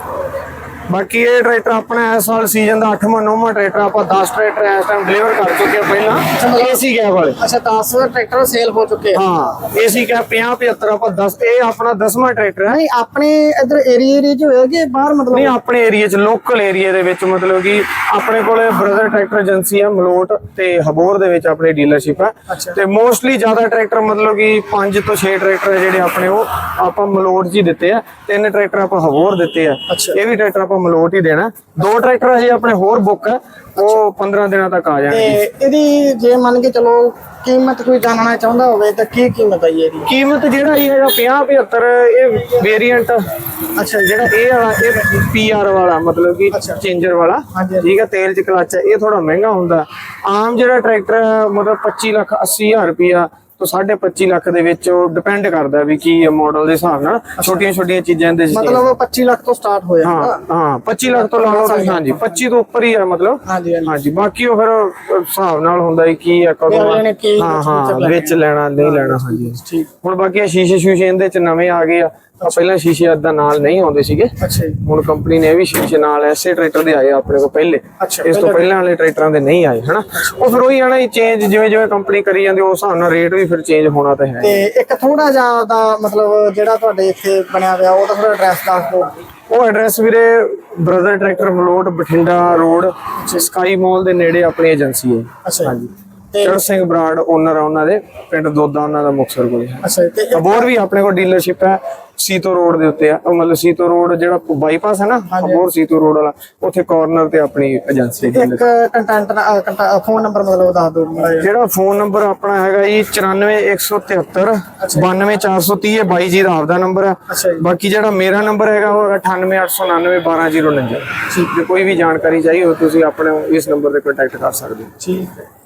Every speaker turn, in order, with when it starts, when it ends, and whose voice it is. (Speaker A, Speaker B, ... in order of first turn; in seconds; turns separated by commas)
Speaker A: 0.9-7.4, Speaker B: 6.4-6.8, Speaker B: 7.4-9.2, Speaker A: 9.1-12.8, Speaker B: 12.7-15.5, Speaker A: 15.3-35.4, Speaker B: 22.5-22.8, Speaker B: 29.9-30.2, Speaker B: 35.1-40.1, Speaker A: 40.1-43.3, Speaker B: 43.8-44.3, Speaker A: 44.0-58.9, Speaker B: 46.5-46.8, Speaker B: 47.5-47.9, Speaker B: 58.5-60.4, Speaker A: 60.0-84.5, Speaker B: 61.1-62.3, Speaker B: 63.5-64.0, Speaker B: 66.7-69.9, Speaker B: 74.4-74.8, Speaker B: 78.0-78.7, Speaker B: 80.2-80.6, Speaker B: 84.4-89.1, Speaker A: 89.5-108.6, Speaker B: 93.2-93.5, Speaker B: 95.5-95.7, Speaker B: 96.3-96.6, Speaker B: 99.8-100.7, Speaker B: 105.3-105.7, Speaker B: 108.2-111.5, Speaker A: 111.3-124.9, Speaker B: 114.8-115.1, Speaker B: 117.3-117.7, Speaker B: 125.0-125.4